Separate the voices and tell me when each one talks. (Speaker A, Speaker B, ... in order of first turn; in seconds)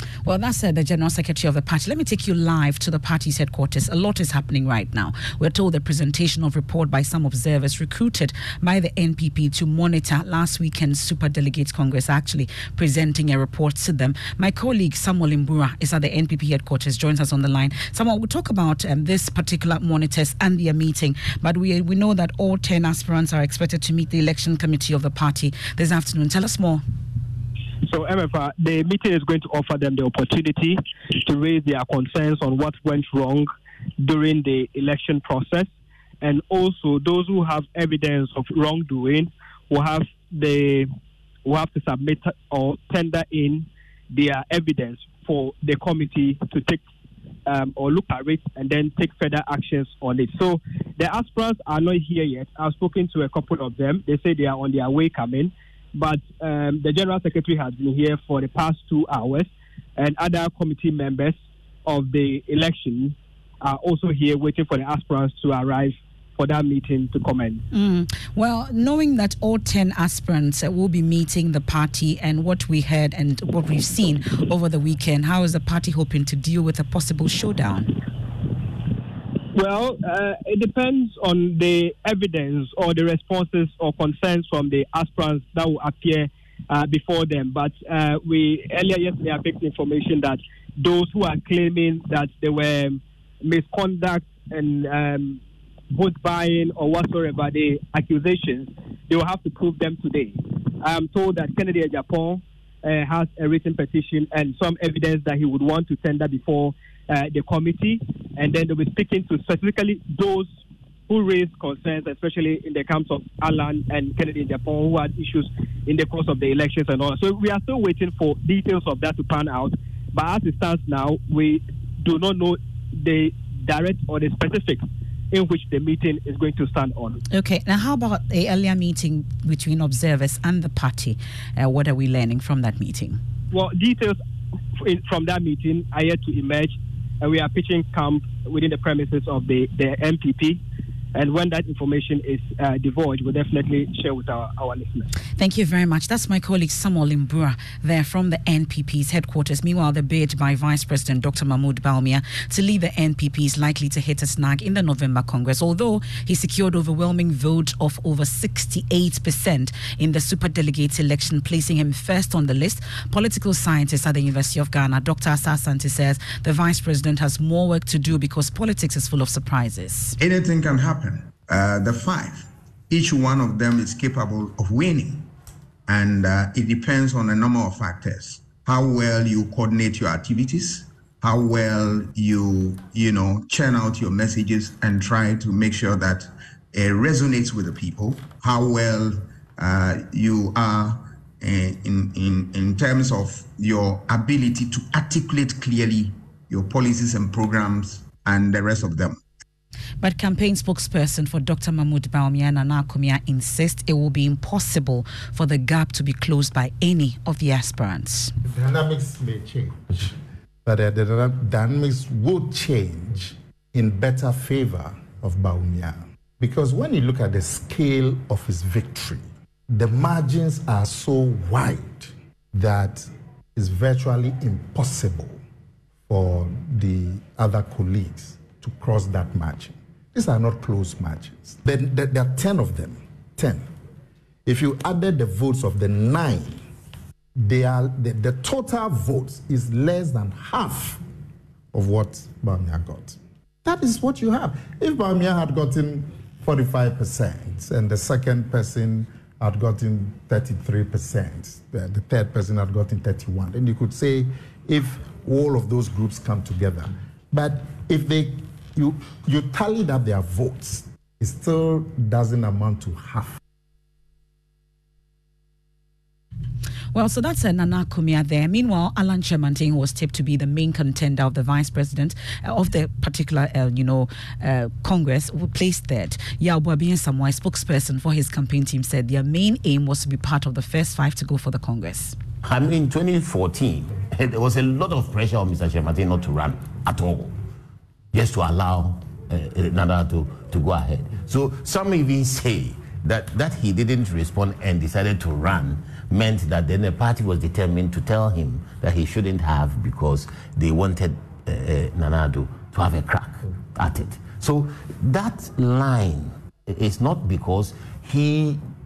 Speaker A: 0.2-26.8, 67.7-77.9, 127.3-133.2, 145.4-170.2, 200.0-208.3, 266.9-282.1
Speaker B: 27.8-33.5, 34.0-35.7, 36.2-40.9, 41.4-46.8, 47.5-67.6, 79.5-95.4, 95.9-110.5, 111.1-127.2, 133.5-134.2, 134.8-140.6, 141.1-145.1
Speaker C: 170.2-175.3, 175.9-199.2
Speaker D: 208.4-225.4, 226.1-233.7, 234.4-236.6, 237.3-241.0, 241.7-263.4
Speaker E: 282.4-287.3, 288.1-308.6